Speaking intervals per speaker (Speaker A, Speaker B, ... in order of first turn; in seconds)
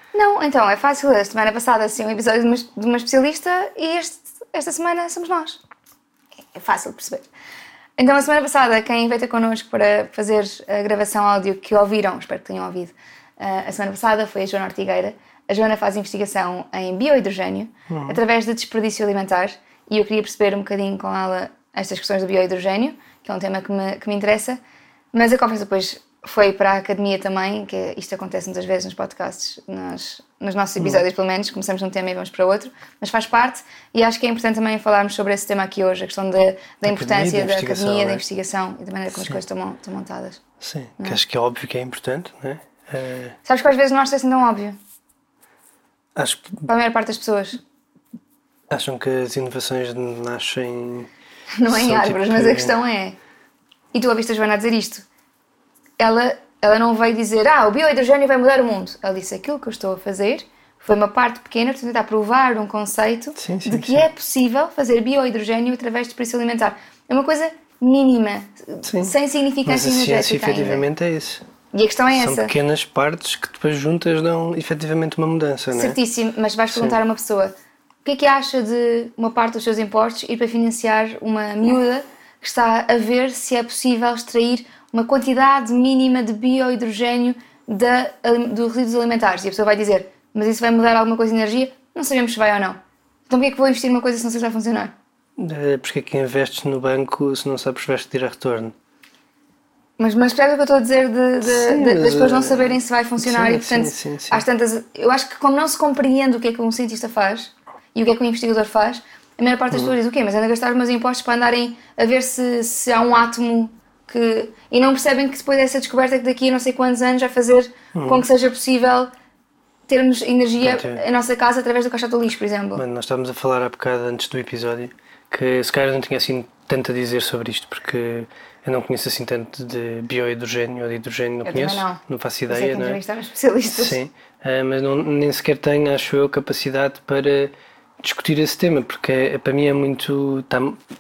Speaker A: 0.1-5.6, 6.5-7.3, 8.0-24.6, 25.1-40.4, 43.5-44.8, 46.7-47.6, 51.6-53.1, 53.9-55.1, 56.0-70.9, 71.7-72.5, 75.7-77.5, 78.0-92.8, 93.3-94.9, 100.0-119.1, 119.9-122.8, 131.4-134.0
Speaker B: 17.9-18.2, 30.8-31.0, 36.9-38.2, 39.1-39.4, 40.6-43.4, 46.1-46.7, 48.7-51.1, 51.7-52.7, 63.4-64.1, 68.8-71.4, 72.1-76.0, 76.7-77.0, 95.4-98.8, 101.4-104.5, 117.9-118.2, 120.6-121.0, 122.8-133.0, 133.7-140.8